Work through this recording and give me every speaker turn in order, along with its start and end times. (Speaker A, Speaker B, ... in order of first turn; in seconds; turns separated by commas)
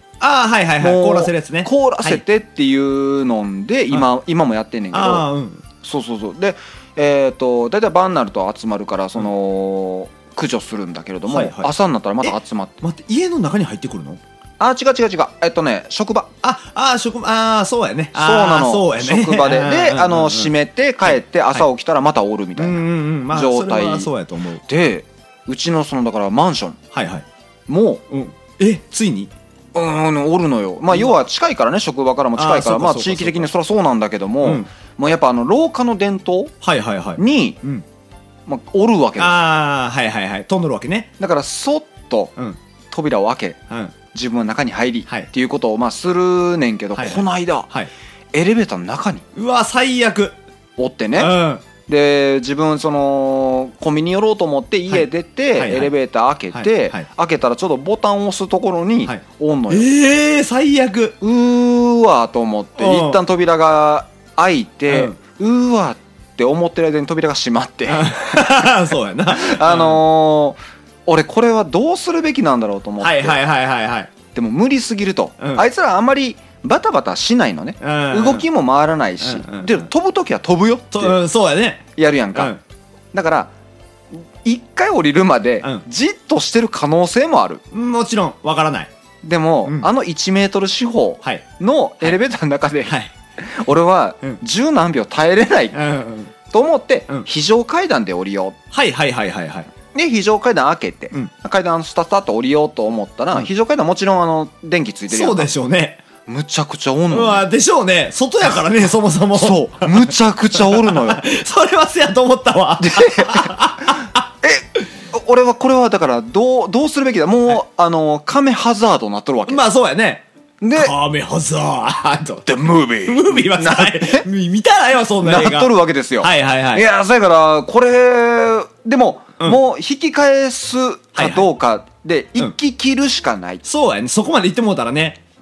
Speaker A: 0.2-2.2, Speaker B: 0.8-5.3, Speaker A: 4.9-5.6, Speaker B: 5.8-12.8, Speaker A: 11.3-11.7, Speaker A: 12.2-14.2, Speaker B: 14.6-16.3, Speaker A: 16.4-21.7, Speaker B: 18.1-24.1, Speaker A: 22.6-24.6, Speaker B: 24.7-26.8, Speaker A: 26.9-27.2, Speaker B: 27.7-28.0, Speaker A: 28.1-29.3, Speaker B: 29.7-36.5, Speaker A: 30.9-31.2, Speaker A: 32.4-33.5, Speaker A: 36.6-37.8, Speaker B: 37.2-37.6, Speaker B: 38.5-39.3, Speaker A: 39.2-41.1, Speaker B: 41.2-42.3, Speaker B: 42.9-43.6, Speaker A: 43.7-44.0, Speaker B: 44.1-47.7, Speaker A: 47.0-47.9, Speaker B: 48.3-49.2, Speaker A: 49.4-50.4, Speaker B: 50.8-51.3, Speaker A: 51.1-51.6, Speaker B: 51.9-59.9, Speaker A: 54.9-55.9, Speaker A: 56.5-57.1, Speaker A: 59.1-61.2, Speaker B: 61.2-68.7, Speaker A: 62.8-63.2, Speaker A: 64.9-65.2, Speaker A: 67.9-70.1, Speaker B: 69.3-73.4, Speaker A: 73.0-74.1, Speaker B: 74.3-81.2, Speaker A: 75.4-75.7, Speaker A: 77.8-78.5, Speaker A: 79.2-79.9, Speaker A: 80.9-82.6, Speaker B: 82.0-82.6, Speaker B: 83.1-83.5, Speaker B: 84.1-87.6, Speaker A: 87.7-88.9, Speaker B: 89.2-95.8, Speaker A: 92.9-93.1, Speaker A: 95.7-96.3, Speaker B: 96.5-98.6, Speaker A: 98.7-99.7, Speaker B: 99.9-105.5, Speaker A: 105.1-106.0, Speaker B: 106.3-107.5, Speaker A: 107.1-114.0, Speaker B: 109.3-111.2, Speaker B: 112.8-119.6, Speaker A: 119.5-126.9, Speaker B: 120.6-121.0, Speaker B: 122.4-124.3, Speaker B: 125.2-133.6, Speaker A: 131.2-131.5, Speaker A: 133.7-135.2